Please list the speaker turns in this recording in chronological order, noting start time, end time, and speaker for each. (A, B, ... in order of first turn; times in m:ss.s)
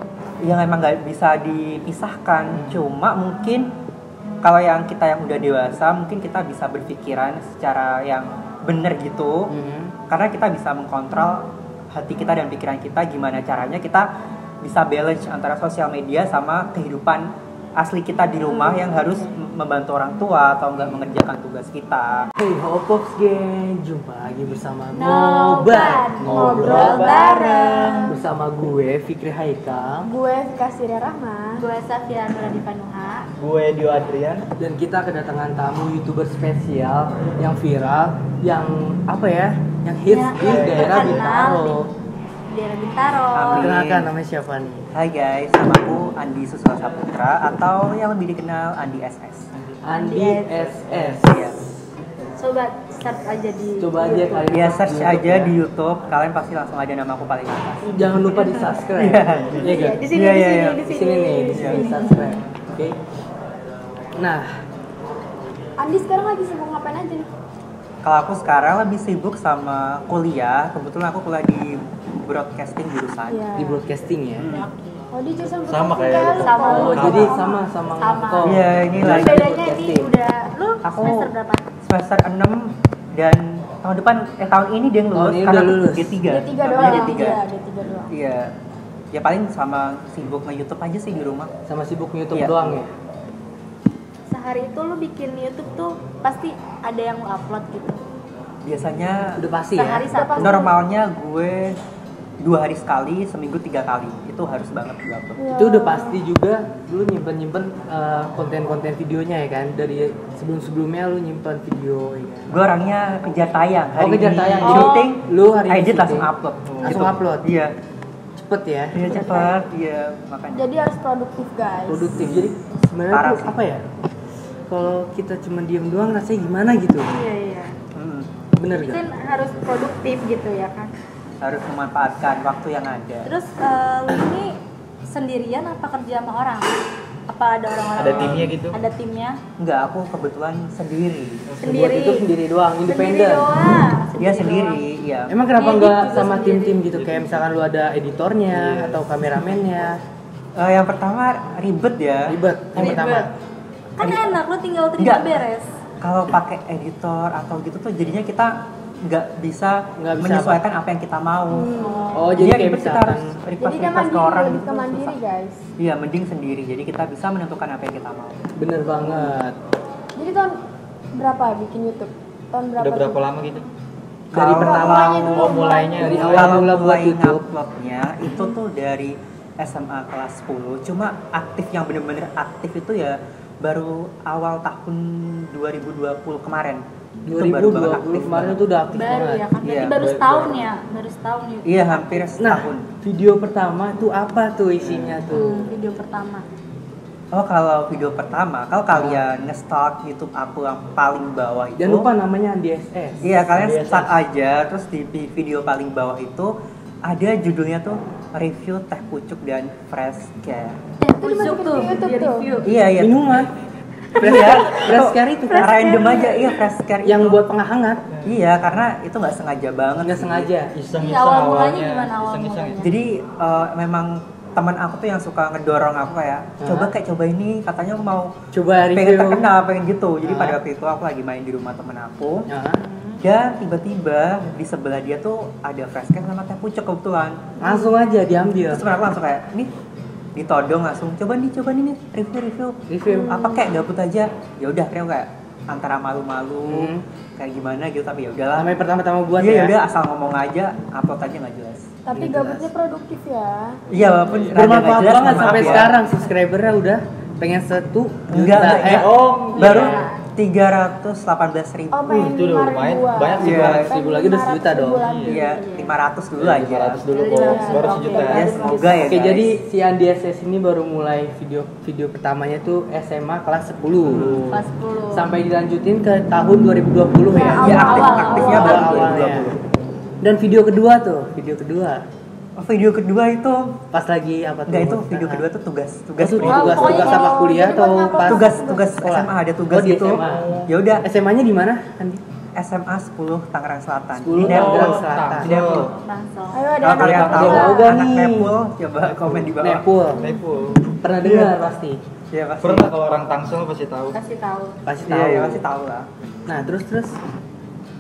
0:00.4-0:03.7 A
0:02.5-0:02.8 B
0:04.4-0:09.5 A
0:09.5-0:09.9 B
0:10.1-0:14.1 A
0:14.6-0:22.3 A
0:18.4-0:19.3 C
0:22.4-0:30.1 B
0:24.9-0:28.2 C
0:26.2-0:27.1 D
0:26.3-0:28.1 E
0:30.0-0:31.6 E
0:31.6-0:33.3 C
0:33.4-0:34.4 D
0:34.6-0:41.9 B
0:40.1-0:41.8 C
0:40.4-0:41.3 D
0:42.5-0:43.7 C
0:43.3-0:44.1 A
0:43.5-0:44.9 B
0:44.9-0:49.5 A
0:49.6-0:49.8 D
0:49.8-0:51.6 B
0:49.9-0:50.7 C
0:50.9-0:51.2 D
0:51.2-0:51.5 A
0:52.4-0:54.7 C
0:53.8-0:55.5 B
0:54.5-1:00.8 A
0:57.8-1:00.0 B
0:58.3-0:58.8 C
0:59.5-0:59.8 D
0:59.6-1:02.4 C
1:00.8-1:03.0 B
1:01.5-1:01.9 A
1:04.2-1:04.6 B
1:05.8-1:07.3 E
1:08.0-1:13.4 A
1:13.3-1:13.8 E
1:13.6-1:14.6 B
1:14.5-1:15.0 C
1:15.1-1:17.6 E
1:15.7-1:17.3 D
1:16.4-1:21.6 C
1:16.7-1:20.1 B
1:18.4-1:19.4 A
1:20.8-1:21.3 A
1:21.8-1:27.4 A
1:25.2-1:26.2 B
1:26.3-1:28.1 E
1:28.1-1:28.5 A
1:29.1-1:31.5 A
1:31.7-1:32.9 B
1:32.3-1:32.8 A
1:34.3-1:38.0 C
1:38.6-1:39.4 A
1:39.4-1:40.1 B
1:39.8-1:40.7 C
1:40.1-1:40.8 E
1:40.4-1:41.8 A
1:42.4-1:45.4 A
1:45.4-1:46.2 E
1:45.6-1:52.6 B
1:52.5-1:57.7 A
1:54.0-1:56.3 B
1:54.6-1:55.1 C
1:56.7-1:57.0 D
1:56.8-1:57.4 B
1:58.4-1:59.1 B
1:58.9-2:00.7 A
2:00.5-2:02.3 E
2:01.9-2:03.8 B
2:02.2-2:02.5 A
2:03.1-2:03.6 A
2:04.7-2:07.1 B
2:07.1-2:07.8 C
2:08.0-2:08.3 A
2:08.6-2:09.0 B
2:08.7-2:10.9 C
2:11.4-2:13.3 A
2:13.2-2:14.6 C
2:15.1-2:16.7 C
2:17.3-2:19.4 C
2:18.0-2:18.8 D
2:19.6-2:21.4 A
2:21.5-2:21.8 D
2:21.6-2:22.2 C
2:21.6-2:23.5 B
2:22.8-2:24.8 C
2:24.2-2:25.3 A
2:25.3-2:30.0 B
2:25.6-2:26.8 C
2:26.9-2:27.2 D
2:28.6-2:29.0 D
2:30.6-2:33.0 A
2:32.3-2:33.3 B
2:32.8-2:33.3 C
2:34.0-2:35.7 C
2:34.0-2:34.4 A
2:35.0-2:35.4 A
2:36.0-2:41.7 A
2:40.0-2:40.6 B
2:41.5-2:42.3 E
2:41.8-2:42.4 C
2:42.1-2:43.4 B
2:42.4-2:45.2 A
2:43.6-2:45.6 E
2:45.8-2:48.4 A
2:48.6-2:49.6 B
2:50.2-2:50.6 E
2:51.2-2:53.2 E
2:52.8-2:53.7 D
2:54.3-3:08.6 A
2:54.3-2:55.2 B
2:54.4-2:56.4 E
2:54.7-2:56.6 D
2:55.9-2:57.4 B
3:07.3-3:09.4 B
3:08.9-3:12.5 C
3:09.6-3:10.0 A
3:09.9-3:10.7 D
3:11.6-3:12.8 A
3:12.4-3:15.7 B
3:14.8-3:15.2 D
3:15.3-3:16.4 C
3:17.3-3:22.1 A
3:18.9-3:19.2 B
3:21.8-3:23.4 B
3:23.2-3:26.5 A
3:23.4-3:24.1 D
3:27.0-3:30.8 A
3:31.0-3:32.7 C
3:31.2-3:32.4 E
3:32.6-3:33.2 A
3:33.0-3:33.5 B
3:34.2-3:37.4 A
3:34.2-3:36.1 B
3:34.3-3:34.9 C
3:35.5-3:36.6 C
3:37.0-3:38.0 B
3:38.2-3:40.5 A
3:40.0-3:40.7 B
3:40.8-3:42.8 D
3:41.0-3:43.0 C
3:42.8-3:48.3 A
3:46.6-3:46.9 B
3:48.5-3:49.5 B
3:48.9-3:52.5 A
3:50.2-3:50.6 B
3:52.5-3:52.8 B
3:52.8-3:53.2 C
3:53.2-3:57.5 A
3:57.6-3:58.8 B
3:58.7-3:59.7 A
4:00.4-4:08.7 A
4:02.9-4:03.4 B
4:03.1-4:03.6 E
4:06.7-4:07.0 B
4:08.6-4:09.8 B
4:09.4-4:11.9 A
4:12.1-4:13.8 E
4:12.1-4:12.6 B
4:13.9-4:16.0 A
4:14.2-4:14.5 D
4:14.5-4:19.1 B
4:15.3-4:15.7 D
4:18.3-4:22.4 A
4:18.8-4:20.1 D
4:19.6-4:20.0 C
4:19.6-4:20.0 E
4:21.9-4:25.6 E
4:22.1-4:23.9 D
4:23.4-4:23.9 A
4:23.5-4:25.0 B
4:25.0-4:25.4 D
4:25.2-4:27.0 A
4:25.4-4:25.9 C
4:26.4-4:28.8 D
4:27.1-4:29.2 C
4:27.3-4:28.4 E
4:28.2-4:29.5 A
4:29.1-4:34.4 B
4:34.0-4:34.7 D
4:34.5-4:35.3 C
4:35.1-4:39.5 B
4:37.3-4:39.0 E
4:37.4-4:39.0 C
4:37.6-4:39.6 A
4:39.1-4:39.5 D
4:40.2-4:42.0 B
4:42.6-4:43.8 A
4:43.9-4:45.4 B
4:44.7-4:47.1 A
4:46.2-4:52.2 B
4:46.4-4:47.8 C
4:46.7-4:48.8 E
4:48.2-4:51.0 A
4:50.2-4:50.7 D
4:52.6-4:55.9 A
4:54.2-4:55.5 B
4:54.4-4:55.9 D
4:55.5-4:56.7 C
4:56.5-4:57.9 E
4:56.8-4:59.8 A
4:57.0-4:57.7 D
4:57.0-4:58.5 B
4:59.2-4:59.5 D
4:59.6-5:00.3 B
5:00.2-5:01.6 D
5:01.0-5:02.0 B
5:02.3-5:02.9 A
5:02.6-5:04.2 D
5:04.1-5:04.8 C
5:04.9-5:05.6 B
5:05.1-5:06.1 A
5:06.5-5:07.2 B